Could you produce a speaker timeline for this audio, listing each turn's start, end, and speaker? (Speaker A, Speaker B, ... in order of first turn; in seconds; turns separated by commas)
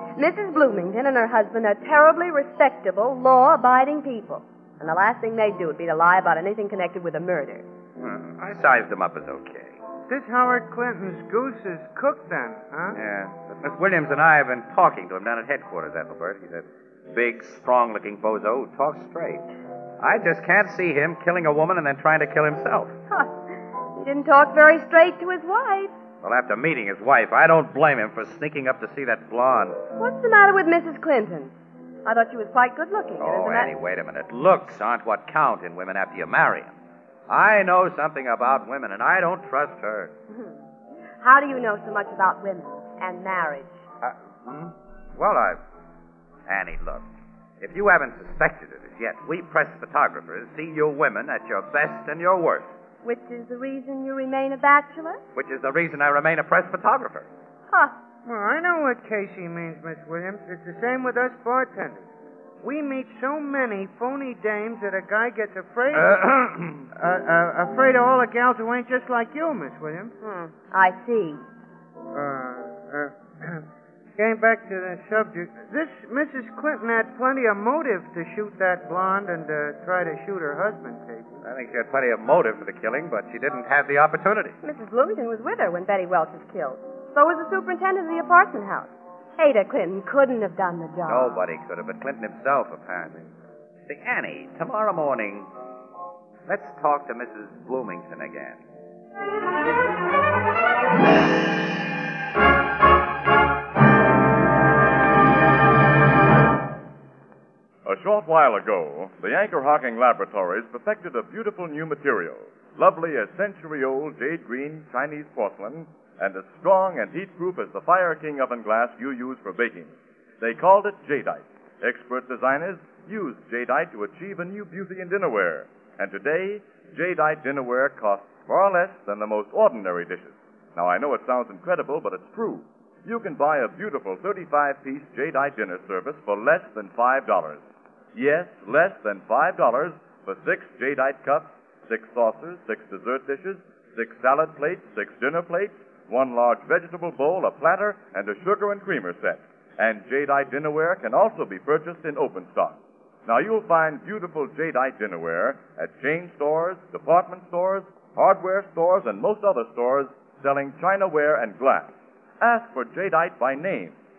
Speaker A: 0.2-7.7, Speaker B: 8.0-9.8, Speaker C: 10.1-13.0, Speaker B: 12.9-19.5, Speaker B: 20.0-23.0, Speaker A: 23.1-23.4, Speaker A: 24.0-25.9, Speaker B: 26.2-29.8, Speaker A: 30.0-31.5, Speaker A: 32.0-33.7, Speaker B: 33.2-36.8, Speaker B: 37.3-40.1, Speaker A: 40.3-40.6, Speaker A: 41.2-43.8, Speaker B: 44.0-45.6, Speaker B: 46.5-47.1, Speaker B: 47.6-52.7, Speaker A: 53.0-55.2, Speaker B: 55.3-57.3, Speaker A: 57.7-58.0, Speaker C: 58.2-62.1, Speaker C: 62.6-66.3, Speaker B: 65.9-66.9, Speaker C: 67.0-70.2, Speaker A: 70.2-71.4, Speaker C: 72.1-73.6, Speaker C: 74.2-81.4, Speaker B: 81.4-84.6, Speaker A: 84.6-91.4, Speaker B: 91.1-93.3, Speaker B: 93.9-95.5, Speaker B: 96.5-98.6, Speaker D: 107.8-137.6, Speaker D: 138.1-164.0